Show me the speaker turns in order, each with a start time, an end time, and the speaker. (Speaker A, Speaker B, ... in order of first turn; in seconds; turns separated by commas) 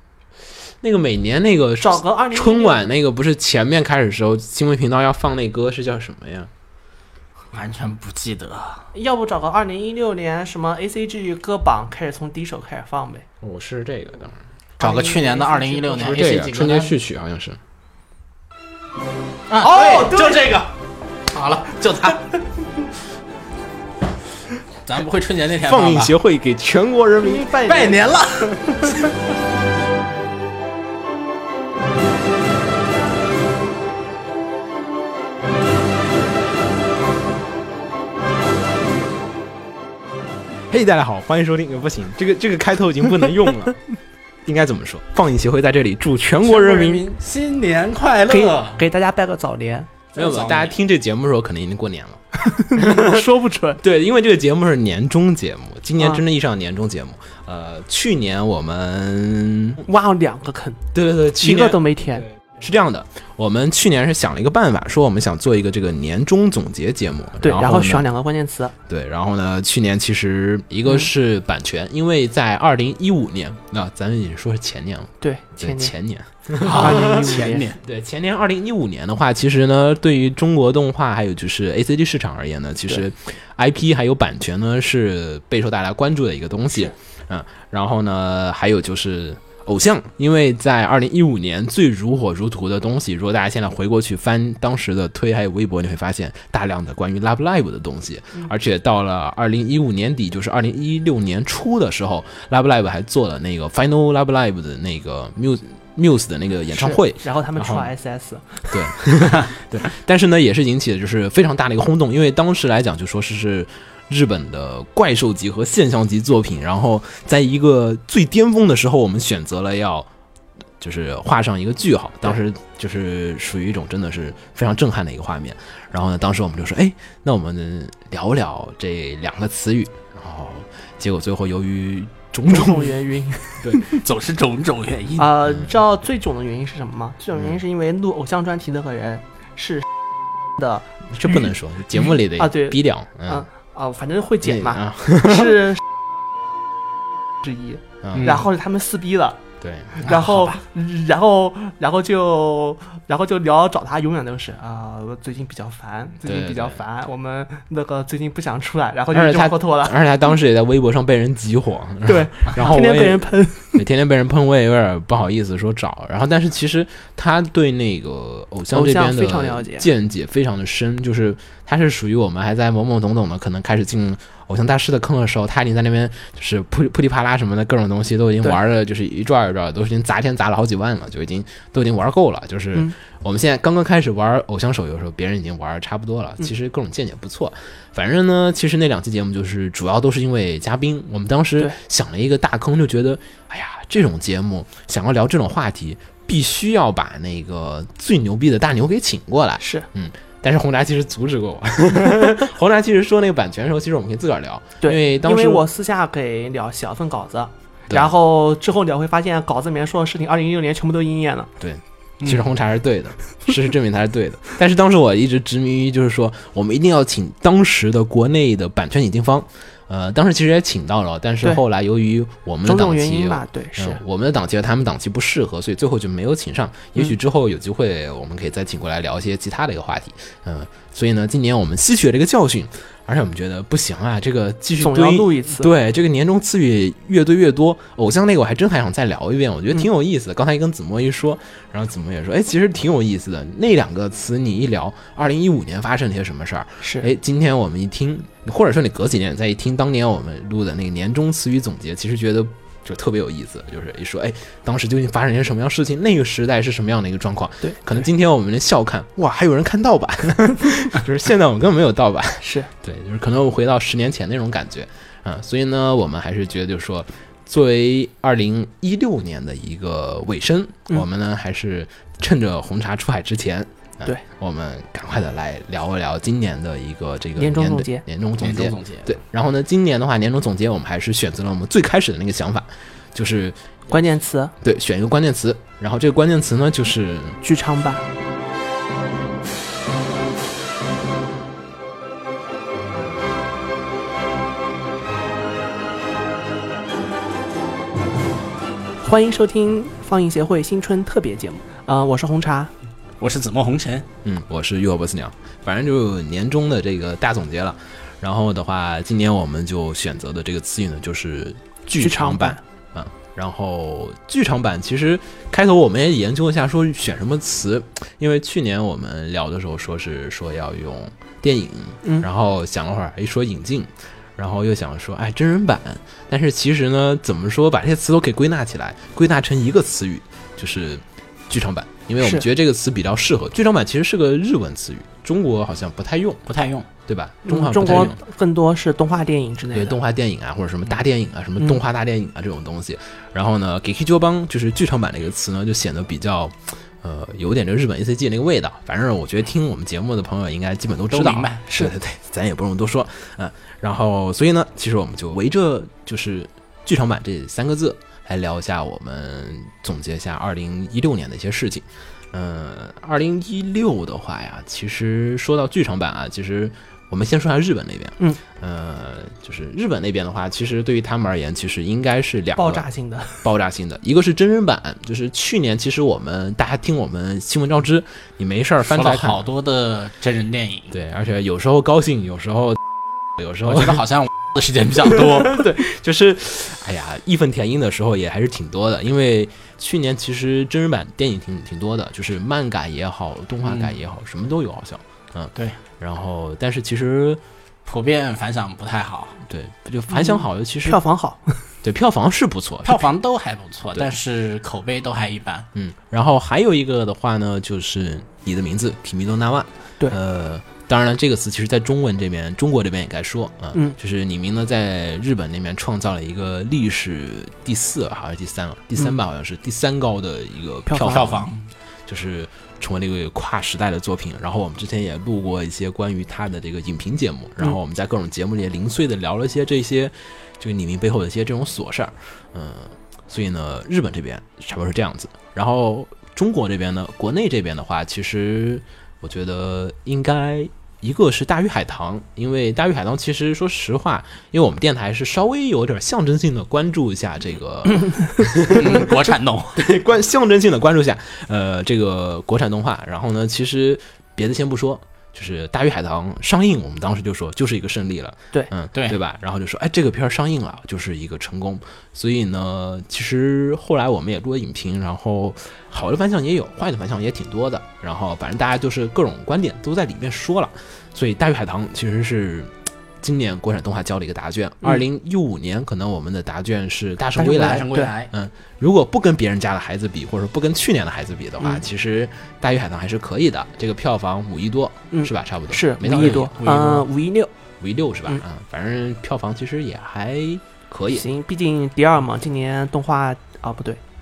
Speaker A: 0.8-6.5, Speaker B: 1.8-2.8, Speaker C: 7.5-8.8, Speaker B: 8.9-13.2, Speaker A: 13.4-14.3, Speaker B: 14.8-16.3, Speaker C: 14.8-16.9, Speaker A: 16.1-17.6, Speaker C: 19.5-20.7, Speaker B: 19.6-20.6, Speaker C: 21.3-22.2, Speaker C: 24.8-26.1, Speaker A: 25.6-27.5, Speaker B: 27.2-28.0, Speaker C: 27.6-29.1, Speaker A: 40.7-43.8, Speaker A: 44.5-47.0, Speaker C: 46.4-48.8, Speaker B: 48.3-50.1, Speaker C: 50.1-50.7, Speaker A: 50.1-53.2, Speaker B: 52.5-53.8, Speaker A: 53.8-59.8, Speaker B: 59.9-60.8, Speaker A: 60.9-61.8, Speaker B: 61.4-62.2, Speaker A: 62.4-68.0, Speaker B: 67.4-68.7, Speaker A: 68.9-107.9, Speaker B: 75.2-75.9, Speaker C: 76.6-77.8, Speaker B: 76.7-77.7, Speaker B: 106.7-108.7, Speaker A: 108.7-120.1, Speaker A: 120.8-132.9, Speaker B: 132.5-134.0, Speaker A: 133.6-133.9, Speaker C: 134.0-135.3, Speaker B: 135.2-139.9, Speaker A: 137.3-137.6, Speaker B: 140.6-145.8, Speaker A: 141.1-143.4, Speaker A: 144.4-145.6, Speaker B: 147.4-149.4, Speaker A: 148.0-148.4, Speaker C: 148.1-148.4, Speaker A: 149.6-150.0, Speaker B: 149.9-159.9, Speaker C: 150.0-150.6, Speaker A: 156.2-156.8, Speaker A: 159.1-205.6, Speaker B: 162.1-163.8, Speaker B: 168.7-169.9, Speaker B: 199.6-199.8, Speaker B: 204.8-211.5, Speaker A: 211.6-283.6, Speaker B: 222.6-224.0, Speaker B: 234.8-235.7, Speaker B: 246.8-247.1, Speaker B: 262.4-262.7, Speaker B: 277.4-278.0, Speaker C: 278.4-279.1, Speaker B: 283.9-284.5, Speaker A: 284.6-287.4, Speaker B: 287.4-288.0, Speaker B: 299.0-302.7, Speaker C: 303.2-304.1, Speaker A: 304.2-336.4, Speaker B: 312.0-312.6, Speaker C: 336.4-336.9, Speaker A: 337.1-338.2, Speaker B: 337.4-340.0, Speaker A: 339.7-372.8, Speaker C: 351.1-351.6, Speaker B: 372.6-373.4, Speaker A: 373.4-379.4, Speaker C: 378.8-381.0, Speaker A: 380.9-382.8, Speaker A: 383.4-384.0, Speaker C: 383.6-385.7, Speaker A: 385.5-397.4, Speaker C: 393.6-393.9, Speaker C: 397.9-399.4, Speaker A: 399.5-401.0, Speaker B: 400.1-401.6, Speaker A: 401.8-403.0, Speaker C: 402.8-405.7, Speaker A: 405.7-421.5, Speaker B: 420.9-421.3, Speaker C: 421.0-421.7, Speaker A: 422.1-449.1, Speaker C: 448.7-449.8, Speaker A: 449.7-486.5, Speaker C: 458.9-459.2, Speaker B: 477.4-478.1, Speaker C: 477.4-478.3, Speaker B: 485.1-487.5, Speaker C: 486.0-487.1, Speaker A: 487.8-491.2, Speaker B: 491.1-494.0